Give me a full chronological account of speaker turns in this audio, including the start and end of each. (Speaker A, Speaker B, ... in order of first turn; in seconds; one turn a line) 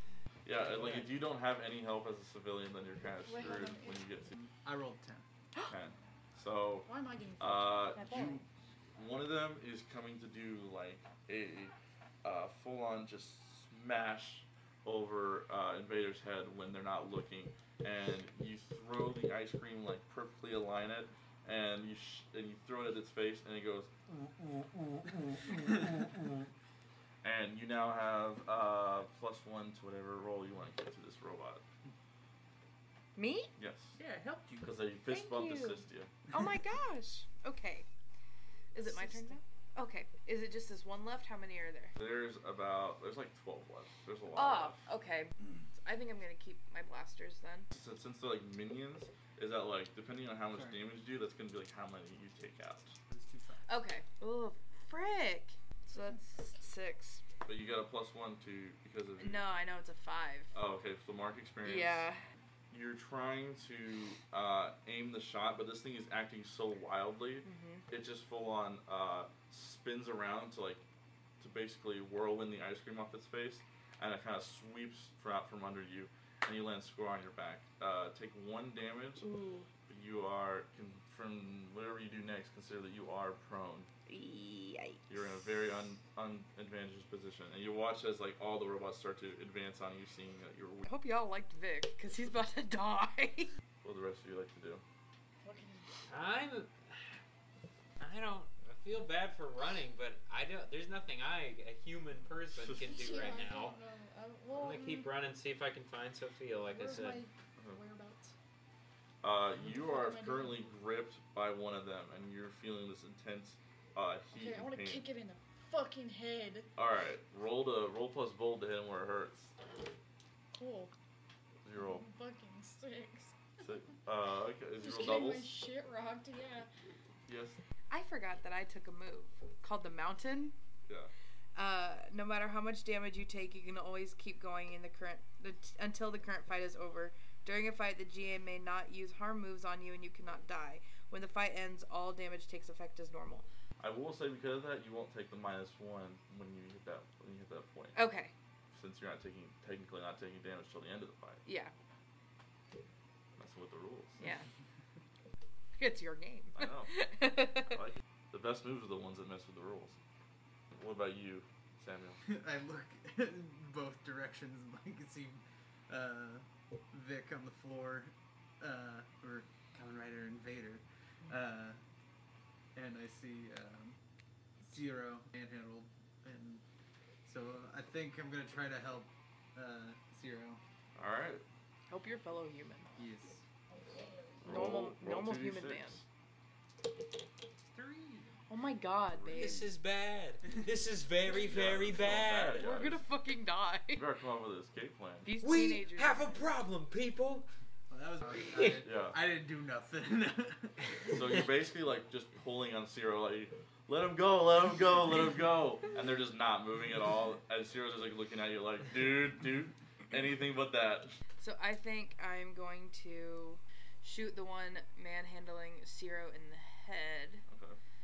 Speaker A: 0.4-4.3
Speaker B: 0.6-1.2
Speaker C: 3.2-4.2
Speaker B: 4.3-5.2
Speaker A: 5.7-6.9
Speaker C: 6.8-8.0
Speaker A: 7.4-24.1
Speaker D: 7.9-8.4
Speaker E: 24.2-26.3
Speaker A: 27.2-31.6
Speaker D: 33.1-33.5
Speaker A: 33.6-34.0
Speaker B: 34.0-34.7
Speaker A: 34.6-36.1
Speaker D: 35.1-37.9
Speaker D: 38.7-41.9
Speaker C: 38.8-39.4
Speaker A: 41.9-44.9
Speaker D: 44.3-47.7
Speaker A: 47.7-53.0
Speaker B: 50.5-50.8
Speaker B: 53.1-53.6
Speaker D: 53.7-57.2
Speaker A: 57.5-59.4
Speaker D: 59.2-60.5
Speaker A: 60.5-62.1
Speaker D: 61.6-62.2
Speaker A: 62.7-70.8
Speaker D: 67.4-67.8
Speaker A: 71.4-79.2
Speaker D: 79.2-79.7
Speaker A: 79.9-83.9
Speaker D: 84.1-85.1
Speaker A: 85.1-90.9
Speaker D: 90.8-93.5
Speaker A: 93.8-94.8
Speaker C: 95.4-95.9
Speaker E: 96.1-97.2
Speaker E: 98.0-103.8
Speaker A: 102.5-103.4
Speaker C: 102.8-105.1
Speaker E: 104.5-107.2
Speaker C: 106.7-108.3
Speaker A: 109.2-115.0
Speaker C: 109.6-110.6
Speaker C: 114.3-116.7
Speaker A: 116.8-119.5
Speaker C: 120.5-120.9
Speaker A: 121.6-122.0
Speaker C: 121.7-123.4
Speaker A: 123.6-125.5
Speaker C: 124.8-126.7
Speaker A: 127.3-127.6
Speaker D: 127.9-130.5
Speaker A: 130.9-131.1
Speaker D: 131.5-143.4
Speaker A: 143.8-148.0
Speaker D: 147.9-148.3
Speaker A: 148.7-151.4
Speaker D: 151.4-151.7
Speaker A: 153.4-154.2
Speaker D: 154.2-154.4
Speaker D: 155.8-157.8
Speaker A: 156.5-156.9
Speaker A: 157.6-160.0
Speaker A: 160.7-162.2
Speaker B: 162.2-171.8
Speaker B: 172.7-174.0
Speaker B: 174.6-176.6
Speaker B: 177.2-180.6
Speaker A: 180.9-181.4
Speaker D: 181.9-182.9
Speaker B: 183.0-183.4
Speaker D: 184.4-186.0
Speaker A: 184.4-186.1
Speaker E: 187.7-188.3
Speaker D: 188.5-189.6
Speaker A: 189.1-189.7
Speaker E: 189.3-192.7
Speaker A: 191.3-193.0
Speaker D: 192.6-194.0
Speaker A: 193.9-195.3
Speaker D: 195.2-196.4
Speaker E: 195.4-197.5
Speaker B: 197.9-201.2
Speaker E: 198.4-198.8
Speaker A: 198.8-199.2
Speaker A: 201.1-211.2
Speaker D: 211.4-217.4
Speaker A: 217.5-217.8